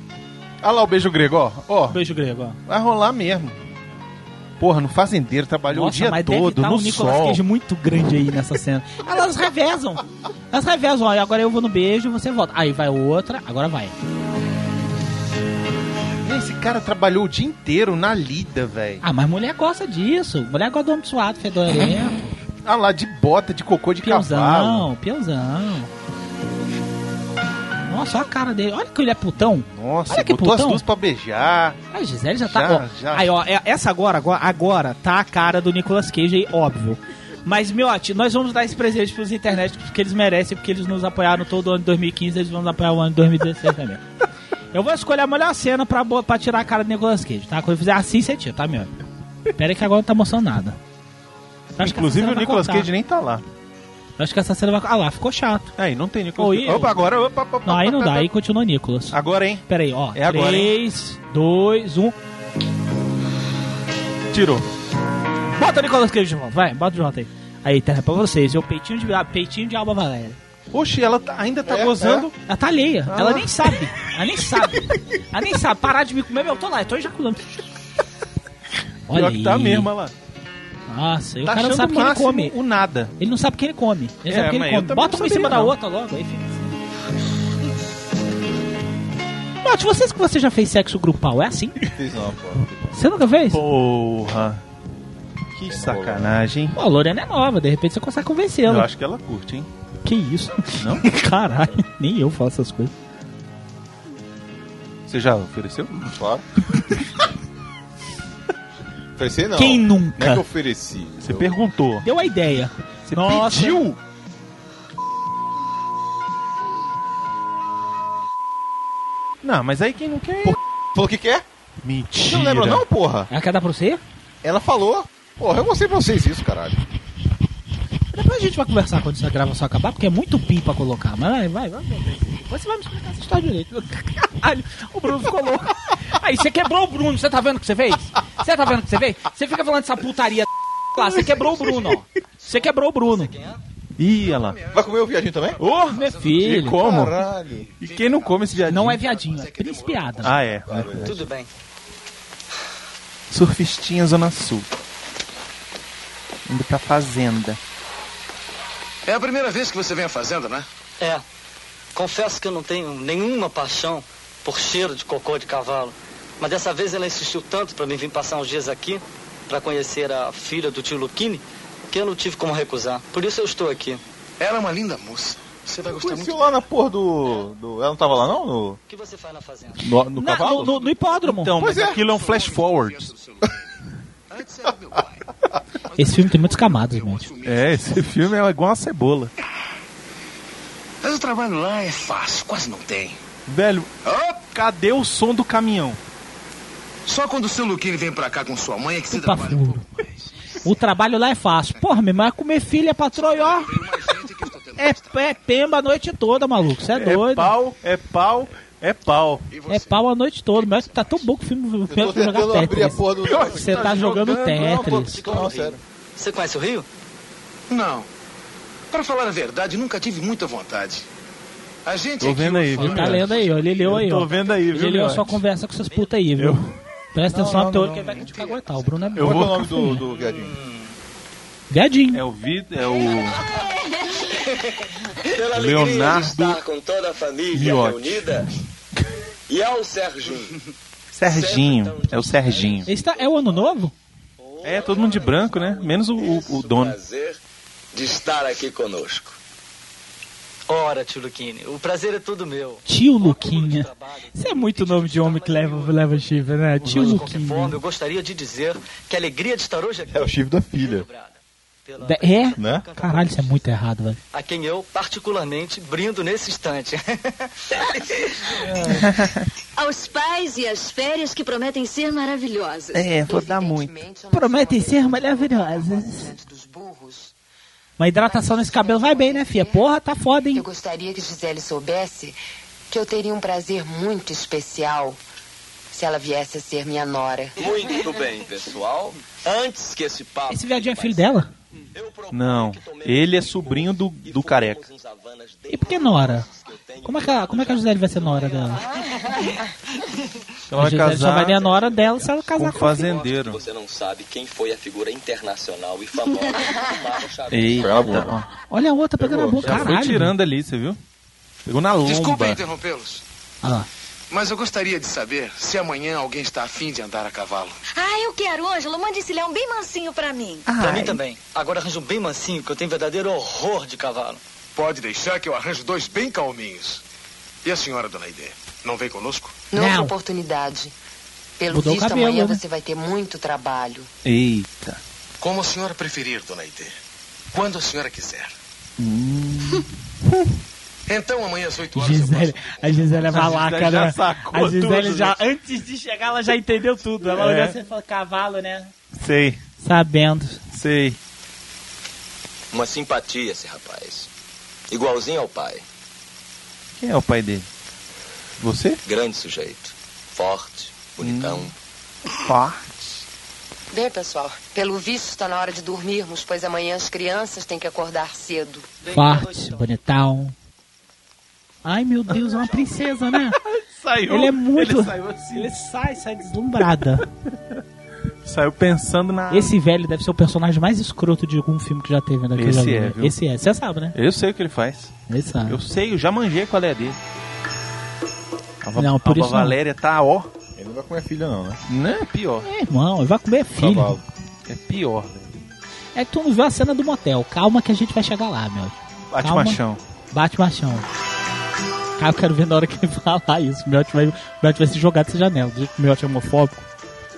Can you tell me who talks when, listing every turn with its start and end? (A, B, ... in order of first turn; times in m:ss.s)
0:00.6-0:02.0 A
0:01.9-0:02.6 B
0:02.7-0:03.6 A
0:04.6-0:07.4 A
0:05.7-0:14.0 B
0:16.2-0:19.0 A
0:19.0-0:22.4 B
0:22.6-0:24.9 A
0:24.0-0:25.9 B
0:27.9-0:30.8 B
0:29.7-0:31.8 A
0:31.9-0:44.0 B
0:32.5-0:33.3 A
0:44.7-0:48.9 B
0:49.6-0:50.8 B
0:51.8-0:52.9 B
0:51.8-0:53.4 A
0:54.2-0:55.7 B
0:55.8-0:58.3 A
0:56.4-0:57.0 B
0:57.6-0:59.2 B
0:59.1-1:00.7 A
0:59.7-1:02.2 B
1:04.3-1:04.7 A
1:05.5-1:10.4 B
1:10.7-1:12.4 A
1:11.6-1:12.3 C
1:12.5-1:17.6 B
1:13.1-1:13.8 A
1:19.1-1:19.9 B
1:19.1-1:20.1 A
1:20.9-1:22.5 B
1:21.4-1:23.1 A
1:23.2-1:26.8 B
1:24.3-1:25.8 A
1:29.6-1:31.8 B
1:31.9-1:33.0 C
1:32.9-1:33.6 B
1:33.5-1:34.6 A
1:35.6-1:36.8 A
1:35.7-1:36.4 C
1:36.8-1:38.9 B
1:38.7-1:39.7 A
1:40.0-1:42.9 B
1:45.1-1:46.1 A
1:46.0-1:46.4 C
1:49.2-1:51.6 C
1:49.6-1:50.4 B
1:51.2-1:52.1 A
1:52.0-1:53.9 B
1:53.1-1:54.0 A
1:59.4-2:00.6 A
2:00.4-2:01.4 C
2:01.8-2:02.9 A
2:02.2-2:03.3 C
2:03.3-2:04.0 B
2:04.4-2:06.8 C
2:08.1-2:23.4 B
2:23.1-2:23.6 D
2:24.0-2:24.6 A
2:24.2-2:25.0 E
2:24.7-2:25.6 C
2:25.5-2:26.8 E
2:25.6-2:27.2 A
2:25.9-2:26.8 B
2:26.8-2:27.7 C
2:27.7-2:30.6 E
2:27.8-2:29.0 A
2:28.7-2:30.4 B
2:30.2-2:31.2 A
2:30.6-2:31.2 C
2:31.0-2:31.5 D
2:33.3-2:34.7 A
2:36.5-2:37.6 A
2:39.1-2:40.7 E
2:42.0-2:54.0 D
2:54.4-2:56.4 E
2:55.8-2:58.8 C
2:58.9-2:59.9 D
2:59.8-3:03.1 A
2:59.8-3:00.7 C
3:00.2-3:01.5 B
3:01.6-3:02.0 C
3:01.6-3:05.2 E
3:05.8-3:08.2 E
3:06.0-3:07.3 B
3:07.4-3:09.3 A
3:11.0-3:13.2 E
3:13.5-3:13.9 A
3:14.0-3:14.4 E
3:14.5-3:16.0 A
3:17.1-3:20.2 E
3:19.1-3:19.8 B
3:20.6-3:23.8 B
3:23.1-3:25.2 E
3:24.8-3:27.5 B
3:27.0-3:29.5 A
3:29.5-3:30.0 E
3:29.7-3:35.3 B
3:30.5-3:31.3 E
3:31.9-3:34.0 C
3:33.2-3:35.2 A
3:34.5-3:35.8 C
3:35.2-3:36.9 D
3:37.7-3:38.1 E
3:38.9-3:41.1 E
3:41.8-3:43.6 E
3:42.2-3:45.4 A
3:42.8-3:46.6 B
3:46.4-3:46.7 A
3:47.1-3:50.0 B
3:47.3-3:48.3 C
3:49.2-3:49.8 A
3:49.2-3:50.6 C
3:50.2-3:50.8 D
3:51.7-3:52.2 B
3:52.1-3:53.4 A
3:55.2-3:58.5 F
3:55.5-3:56.6 A
3:57.5-3:58.5 A
3:59.5-4:00.6 F
4:01.1-4:02.9 A
4:01.2-4:03.7 F
4:02.9-4:03.9 B
4:04.4-4:07.4 F
4:04.6-4:07.0 A
4:07.9-4:09.4 F
4:10.7-4:16.2 D
4:12.9-4:17.8 B
4:15.6-4:16.2 F
4:16.8-4:23.7 D
4:16.9-4:17.3 A
4:20.1-4:21.1 C
4:22.0-4:24.2 B
4:22.6-4:22.9 C
4:24.3-4:27.5 D
4:28.8-4:29.4 A
4:29.8-4:33.2 G
4:32.9-4:33.9 A
4:33.2-4:37.3 H
4:34.3-4:36.3 B
4:38.0-4:40.6 B
4:38.2-4:39.9 H
4:40.5-4:42.4 H
4:42.9-4:45.2 H
4:45.9-4:47.9 H
4:47.6-4:59.3 F
4:50.5-4:51.5 B
4:52.3-4:54.8 A
4:55.7-4:56.5 B
4:57.0-4:58.9 B
5:00.7-5:01.6 A
5:00.7-5:03.0 B
5:01.4-5:08.2 F
5:02.6-5:03.6 A
5:07.5-5:08.5 A
5:07.8-5:08.4 C
5:08.7-5:10.3 B
5:09.2-5:09.7 C
5:09.6-5:11.0 A
5:11.7-5:12.6 A
5:12.0-5:13.2 E
5:14.3-5:17.8 E
5:17.9-5:20.7 G
5:20.7-5:21.2 A
5:20.8-5:24.4 D
5:24.8-5:27.0 E
5:27.6-5:29.6 E
5:29.7-5:31.0 H
5:29.8-5:30.1 B
5:31.6-5:34.1 H
5:31.7-5:32.6 B
5:34.2-5:35.0 A
5:35.4-5:36.9 E
5:37.5-5:38.5 E
5:39.0-5:39.9 A
5:41.1-5:43.3 E
5:41.9-5:48.9 B
5:43.3-5:45.4 A
5:47.3-5:47.8 A
5:49.2-5:49.6 A
5:49.8-5:50.6 B
5:50.7-5:51.2 A
5:52.7-5:54.3 F
5:54.9-5:55.8 F
5:57.0-5:57.7 A
5:58.6-5:59.0 A
5:59.1-6:01.7 F
6:01.2-6:01.7 A
6:02.4-6:03.0 A
6:03.9-6:08.9 H
6:09.1-6:10.6 B
6:11.8-6:13.6 B
6:12.3-6:12.7 A
6:13.6-6:15.7 A
6:14.3-6:17.3 B
6:18.4-6:19.7 A
6:19.5-6:24.1 B
6:22.6-6:23.4 A
6:24.1-6:25.1 A
6:25.3-6:25.8 B
6:25.7-6:27.2 A
6:28.8-6:30.5 A
6:29.0-6:29.8 B
6:30.8-6:31.8 C
6:31.9-6:32.7 A
6:32.6-6:34.2 B
6:33.8-6:34.2 C
6:34.7-6:35.5 A
6:36.2-6:39.8 B
6:39.3-6:40.0 A
6:40.3-6:41.1 B
6:42.2-6:46.8 B